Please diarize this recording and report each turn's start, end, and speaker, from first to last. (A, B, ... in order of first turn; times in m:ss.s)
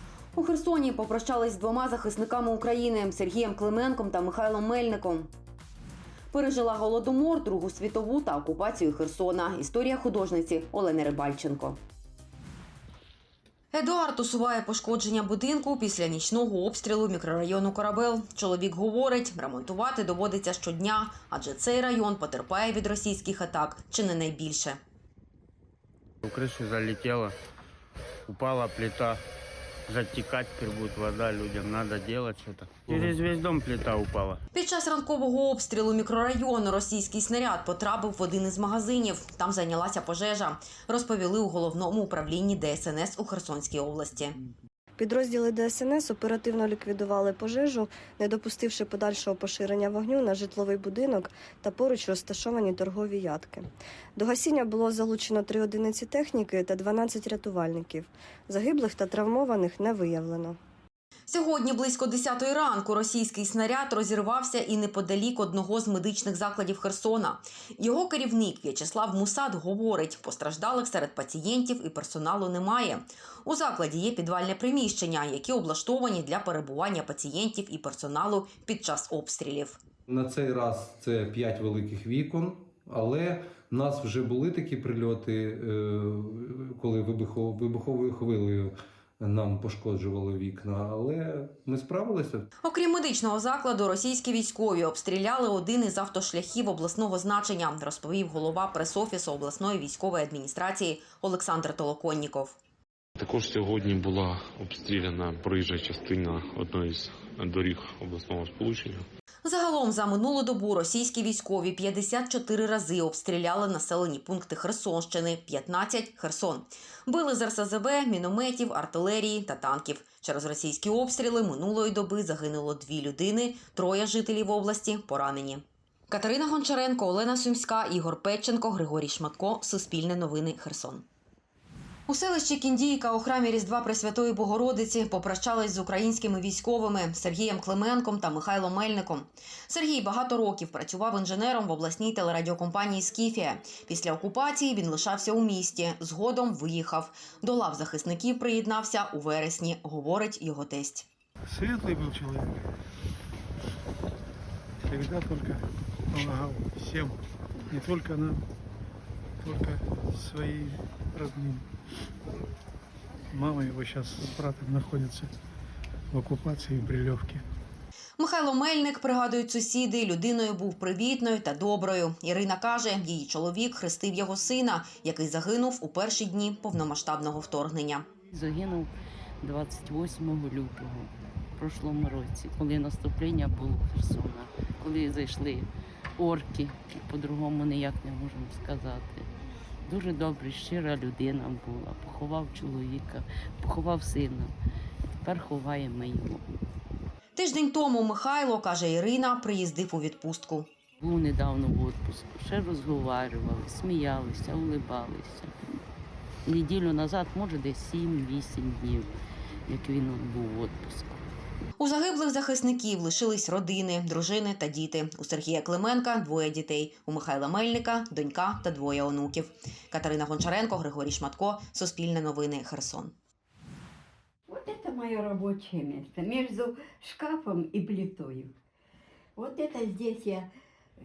0:00.4-0:05.3 A
0:06.3-0:11.8 A
0:13.7-0:24.8 A
0:26.2-0:27.4 B
0:28.3-0:29.2 B
0:29.9-0:34.4 B
0:34.5-0:44.4 A
0:45.0-1:00.6 C
1:01.3-1:19.8 A
1:20.1-1:32.5 D
1:32.6-1:42.6 A
1:43.2-1:49.0 E
1:49.4-2:11.1 A
2:12.1-2:31.1 A
2:31.5-2:32.6 F
2:34.8-2:37.2 F
2:37.7-2:38.4 F
2:39.4-2:41.6 F
2:43.3-2:45.3 F
2:46.1-2:47.4 F
2:48.2-2:58.1 A
2:58.3-2:58.9 G
2:59.4-3:09.3 G
3:09.9-3:14.5 G
3:15.2-3:16.5 G
3:17.4-3:20.7 A
3:21.0-3:25.8 G
3:26.5-3:29.2 G
3:29.7-3:31.3 G
3:31.8-3:43.1 A
3:44.5-3:48.5 H
3:49.4-3:50.5 H